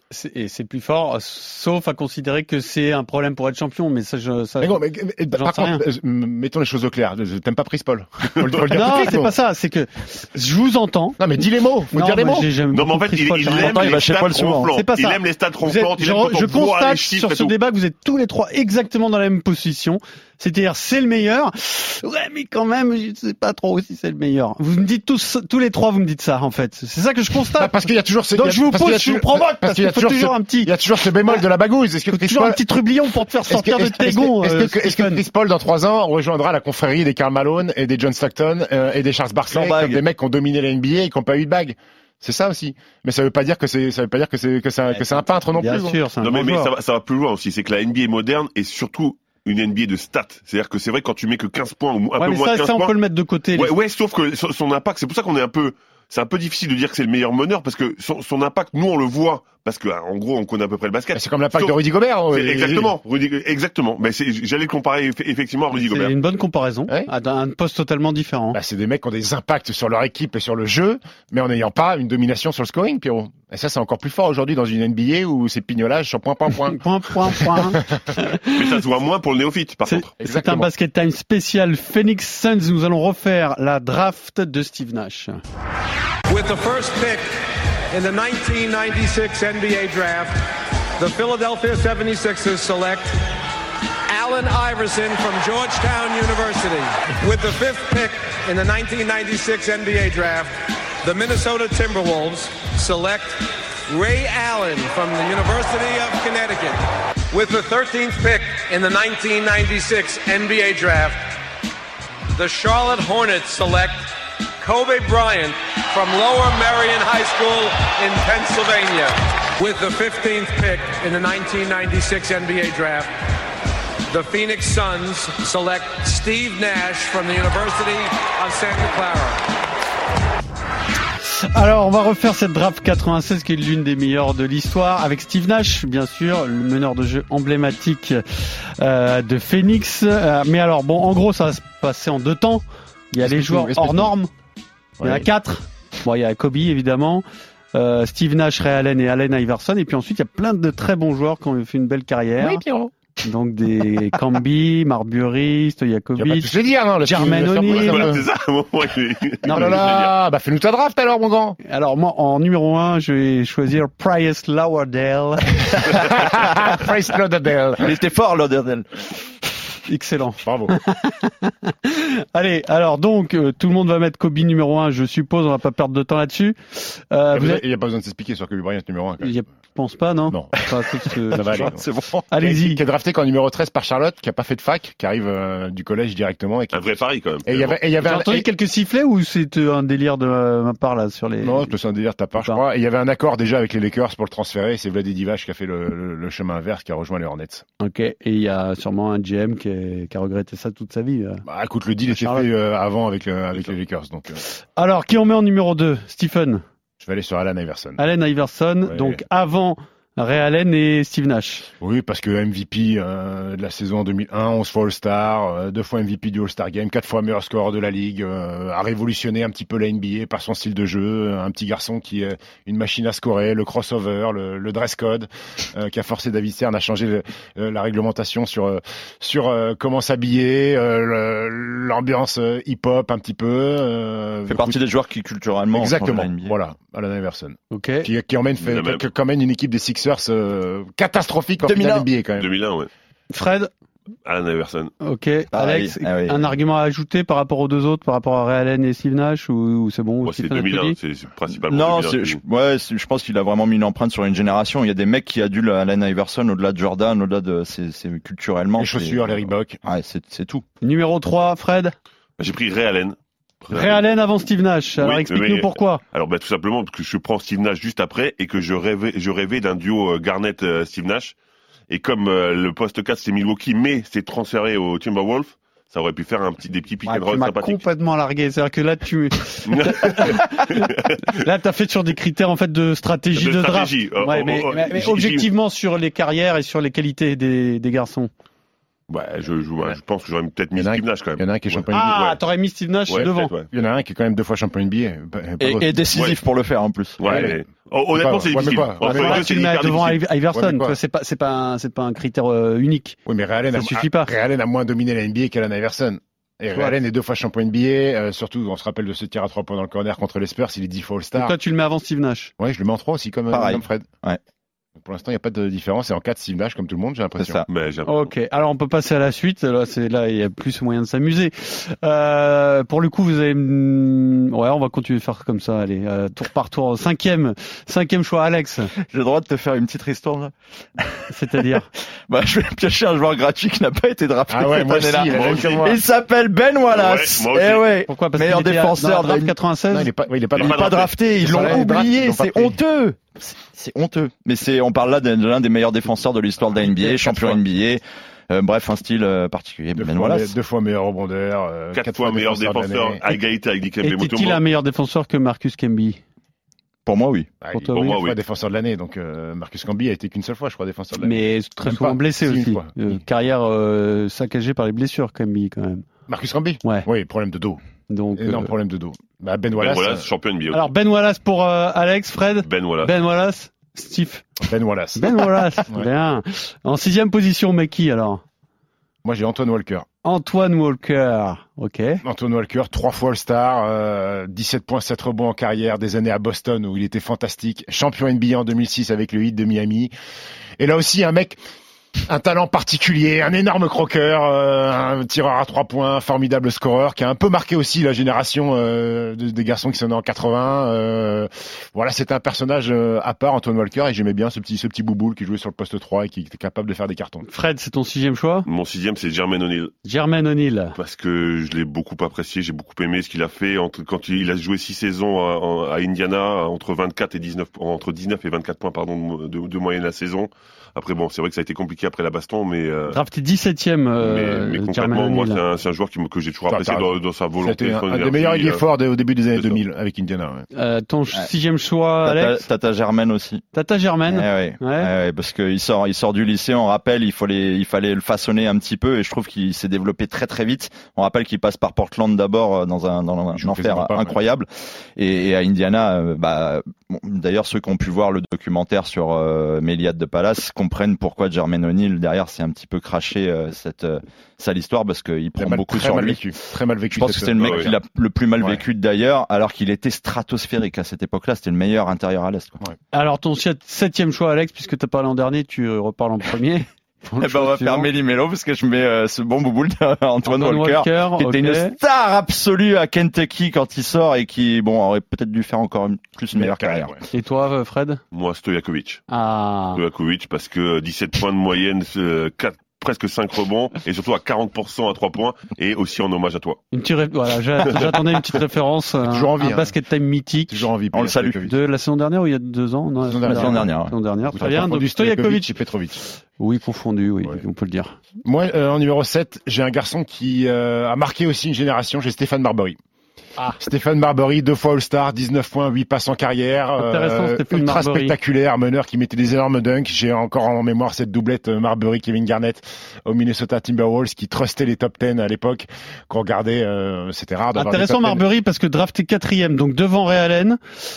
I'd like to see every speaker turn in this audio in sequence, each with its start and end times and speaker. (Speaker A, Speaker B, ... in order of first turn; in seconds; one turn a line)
Speaker A: 0.1-5.8
Speaker B: 4.6-9.3
Speaker C: 8.4-8.6
Speaker A: 8.7-11.2
Speaker B: 11.2-12.5
Speaker A: 11.9-14.0
Speaker C: 12.7-17.5
Speaker D: 13.5-14.7
Speaker A: 14.7-27.7
Speaker B: 27.6-32.6
Speaker A: 28.4-30.7
Speaker A: 32.1-35.2
Speaker B: 33.5-46.0
Speaker D: 39.5-40.0
Speaker A: 45.5-46.7
Speaker C: 46.2-52.9
Speaker A: 52.2-53.7
Speaker C: 53.5-61.7
Speaker B: 61.1-62.9
Speaker C: 62.3-66.1
Speaker A: 65.7-68.6
Speaker B: 68.5-76.8
Speaker A: 76.7-78.7
Speaker B: 77.3-78.0
Speaker C: 78.4-80.1
Speaker A: 79.8-85.4
Speaker B: 80.2-80.7
Speaker E: 86.3-87.4
Speaker E: 87.9-90.4
Speaker E: 91.0-93.2
Speaker E: 94.1-111.4
Speaker E: 112.3-123.1
Speaker E: 124.1-129.4
Speaker A: 131.3-144.3
Speaker B: 143.2-144.1
Speaker B: 145.0-145.3
Speaker A: 145.0-152.6
Speaker B: 152.4-152.9
Speaker A: 153.2-156.5
Speaker B: 156.2-158.2
Speaker A: 157.0-158.1
Speaker C: 157.7-160.1
Speaker A: 159.4-159.9
Speaker B: 159.5-161.6
Speaker A: 161.6-166.0
Speaker B: 165.7-168.0
Speaker D: 167.8-168.8
Speaker A: 169.9-177.6
Speaker B: 170.4-170.8
Speaker B: 177.3-179.4
Speaker A: 179.2-181.7
Speaker B: 180.3-186.9
Speaker D: 181.4-182.2
Speaker A: 182.3-182.8
Speaker C: 186.7-187.8
Speaker B: 187.4-188.4
Speaker A: 188.0-191.7
Speaker B: 191.4-197.6
Speaker A: 197.8-201.4
Speaker B: 201.4-204.4
Speaker A: 202.1-202.5
Speaker A: 204.8-206.6
Speaker B: 207.0-208.0
Speaker A: 208.0-211.7
Speaker B: 208.8-209.2
Speaker B: 211.8-234.8
Speaker D: 234.5-236.5
Speaker B: 235.7-242.5
Speaker A: 237.7-238.1
Speaker C: 238.6-239.0
Speaker D: 241.6-242.1
Speaker C: 242.4-242.9
Speaker A: 243.3-243.7
Speaker C: 244.2-244.9
Speaker A: 245.0-251.0
Speaker D: 245.5-246.4
Speaker C: 250.2-252.4
Speaker D: 251.7-260.6
Speaker B: 258.8-259.8
Speaker A: 260.8-261.9
Speaker C: 262.4-264.0
Speaker A: 263.7-266.0
Speaker C: 265.0-271.3
Speaker C: 271.9-277.8
Speaker A: 277.1-288.3
Speaker C: 279.6-281.2
Speaker C: 283.3-285.5
Speaker C: 289.1-292.0
Speaker B: 290.7-292.4
Speaker A: 291.9-293.5
Speaker C: 293.1-293.7
Speaker B: 293.7-295.9
Speaker D: 295.6-297.4
Speaker C: 296.1-296.4
Speaker C: 297.2-300.2
Speaker B: 297.2-299.5
Speaker A: 299.0-303.2
Speaker B: 300.5-301.0
Speaker B: 303.2-311.5
Speaker A: 303.7-304.3
Speaker A: 311.3-312.5
Speaker B: 312.6-314.1
Speaker D: 313.5-314.4
Speaker B: 314.9-317.6
Speaker D: 317.4-317.7
Speaker C: 317.7-318.3
Speaker A: 318.0-328.9
Speaker D: 329.0-331.2
Speaker A: 331.3-331.9
Speaker D: 332.3-339.5
Speaker B: 334.5-336.0
Speaker C: 335.3-335.9
Speaker C: 336.9-337.9
Speaker A: 338.1-340.1
Speaker B: 339.9-342.8
Speaker C: 340.5-341.1
Speaker D: 340.6-350.5
Speaker B: 349.9-353.2
Speaker C: 351.9-354.6
Speaker A: 354.0-356.2
Speaker D: 357.1-357.5
Speaker B: 357.6-363.1
Speaker A: 357.7-358.2
Speaker C: 357.9-358.4
Speaker A: 361.2-366.1
Speaker B: 366.3-367.8
Speaker A: 368.1-368.7
Speaker B: 368.4-370.3
Speaker C: 369.8-370.9
Speaker A: 370.7-374.5
Speaker C: 372.6-373.1
Speaker B: 374.6-376.1
Speaker A: 375.1-378.4
Speaker B: 379.2-380.1
Speaker A: 380.2-382.2
Speaker B: 382.2-390.1
Speaker B: 390.8-391.6
Speaker B: 392.3-407.5
Speaker A: 407.4-408.7
Speaker C: 408.7-409.9
Speaker A: 410.0-410.9
Speaker C: 410.9-423.2
Speaker A: 423.1-425.6
Speaker C: 424.2-428.8
Speaker B: 426.7-427.1
Speaker B: 427.6-430.7
Speaker C: 429.5-429.8
Speaker A: 430.7-432.6
Speaker D: 432.2-433.6
Speaker A: 433.7-435.1
Speaker D: 434.3-456.4
Speaker B: 443.5-444.4
Speaker B: 455.6-458.0
Speaker D: 457.1-462.8
Speaker C: 457.6-457.9
Speaker A: 463.1-468.1
Speaker D: 467.4-477.1
Speaker A: 470.4-472.0
Speaker B: 476.5-477.2
Speaker A: 477.3-478.2
Speaker C: 478.3-479.2
Speaker A: 479.3-480.0
Speaker C: 479.9-486.8
Speaker A: 486.9-490.9
Speaker B: 489.2-489.9
Speaker B: 490.7-491.7
Speaker D: 491.1-491.6
Speaker A: 491.6-495.7
Speaker B: 493.2-493.9
Speaker D: 493.4-494.1
Speaker B: 494.5-496.2
Speaker A: 496.6-498.2
Speaker B: 498.4-503.0
Speaker B: 503.8-518.4
Speaker A: 507.0-508.3
Speaker A: 517.7-520.8